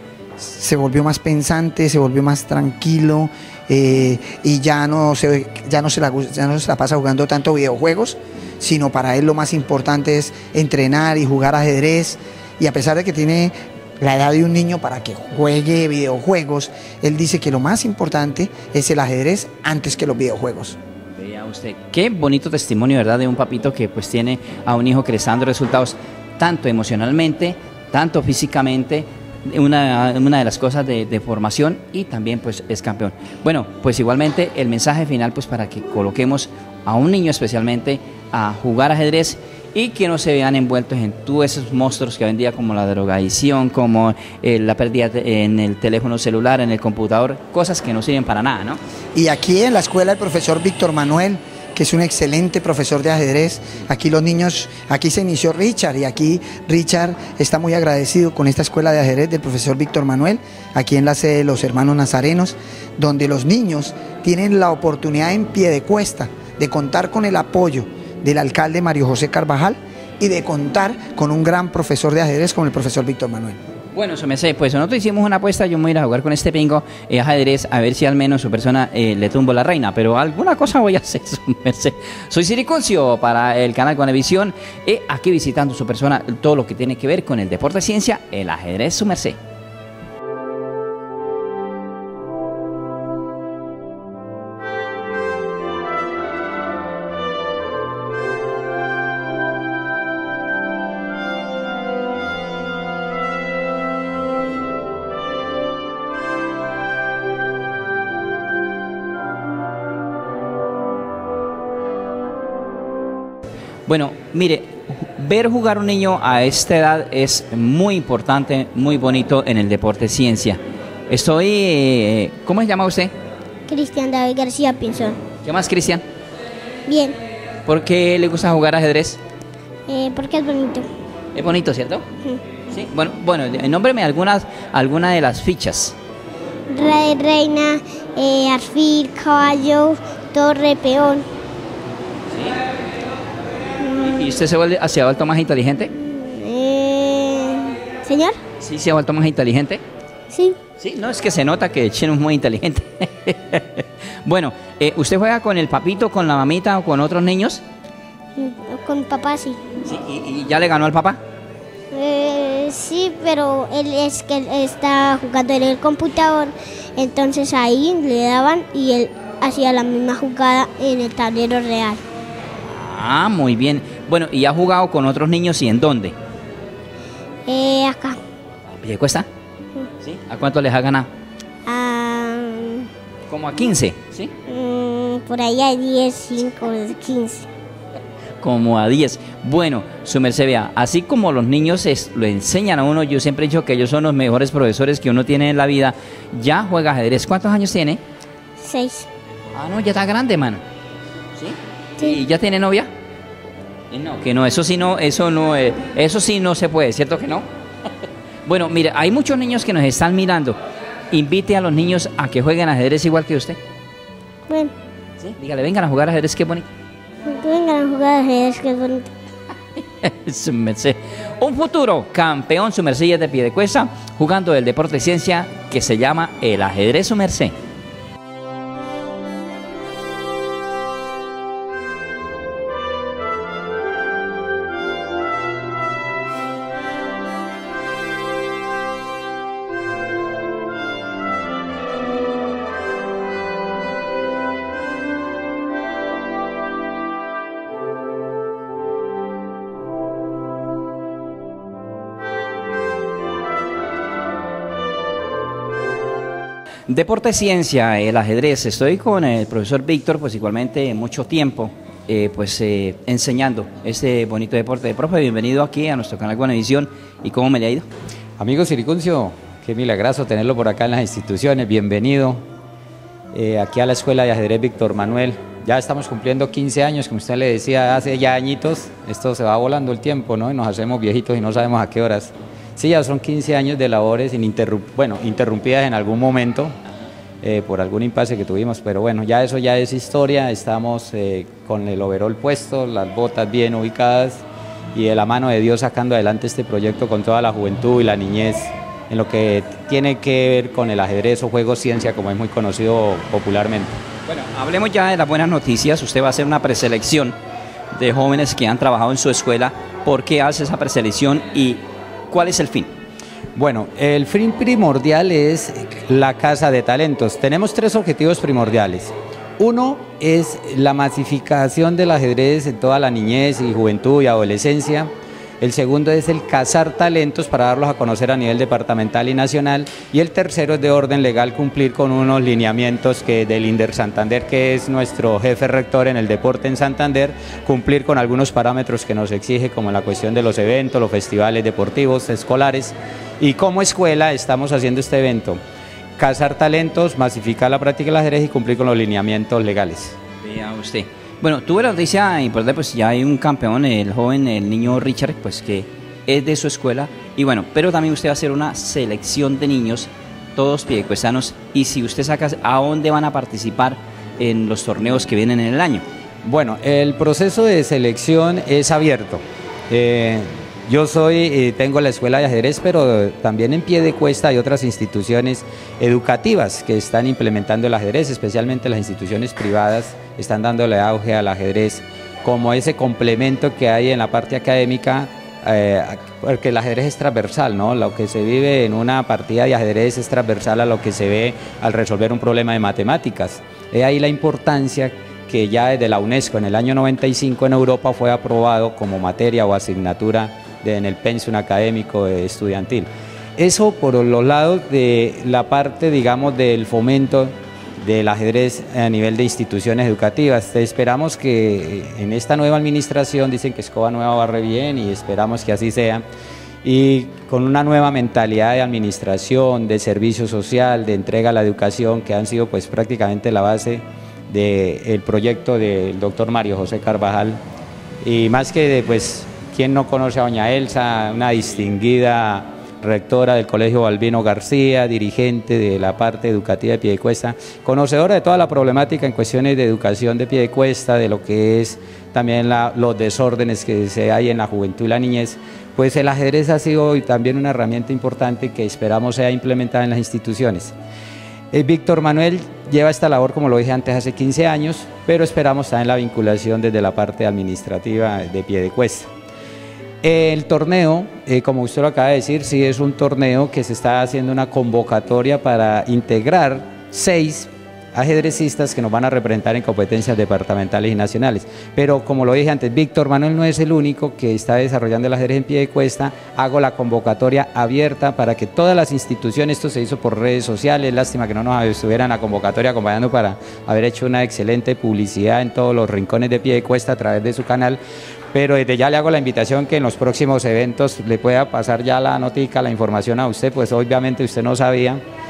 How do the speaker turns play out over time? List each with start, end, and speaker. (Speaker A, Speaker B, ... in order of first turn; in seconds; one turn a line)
Speaker A: 0.4-20.8
Speaker B: 21.2-48.8
Speaker A: 49.1-73.6
Speaker B: 73.9-89.4
Speaker B: 113.9-123.1
Speaker C: 123.7-125.2
Speaker B: 125.4-126.0
Speaker C: 126.9-127.2
Speaker B: 127.7-129.2
Speaker C: 129.9-130.9
Speaker B: 131.3-132.1
Speaker B: 132.7-135.9
Speaker C: 136.7-141.3
Speaker B: 142.3-142.6
Speaker C: 143.8-144.3
Speaker B: 144.0-145.9
Speaker C: 146.0-148.4
Speaker B: 148.6-149.8
Speaker C: 150.3-150.6
Speaker B: 150.8-157.6
Speaker C: 158.3-159.6
Speaker B: 159.8-161.2
Speaker C: 161.9-172.0
Speaker B: 172.6-176.1
Speaker C: 177.5-178.2
Speaker B: 178.7-179.3
Speaker B: 180.0-181.1
Speaker C: 181.7-182.9
Speaker B: 183.3-184.3
Speaker C: 184.5-187.5
Speaker B: 188.4-198.0
Speaker C: 198.6-199.1
Speaker B: 199.5-200.6
Speaker B: 201.3-202.9
Speaker B: 203.9-207.4
Speaker B: 208.4-210.6
Speaker B: 211.1-213.6
Speaker B: 215.2-216.7
Speaker C: 217.2-219.1
Speaker B: 220.0-227.5
Speaker B: 256.9-267.9
Speaker D: 268.4-272.4
Speaker D: 273.3-286.8
Speaker D: 287.4-304.0
Speaker B: 304.3-307.3
Speaker B: 307.9-312.9
Speaker D: 313.5-345.6
Speaker D: 346.2-350.1
Speaker B: 350.4-366.0
Speaker D: 366.4-416.2
Speaker D: 416.8-427.6
Speaker D: 428.2-450.9
Speaker D: 451.7-459.3
Speaker D: 460.2-488.0
Speaker D: 488.5-495.2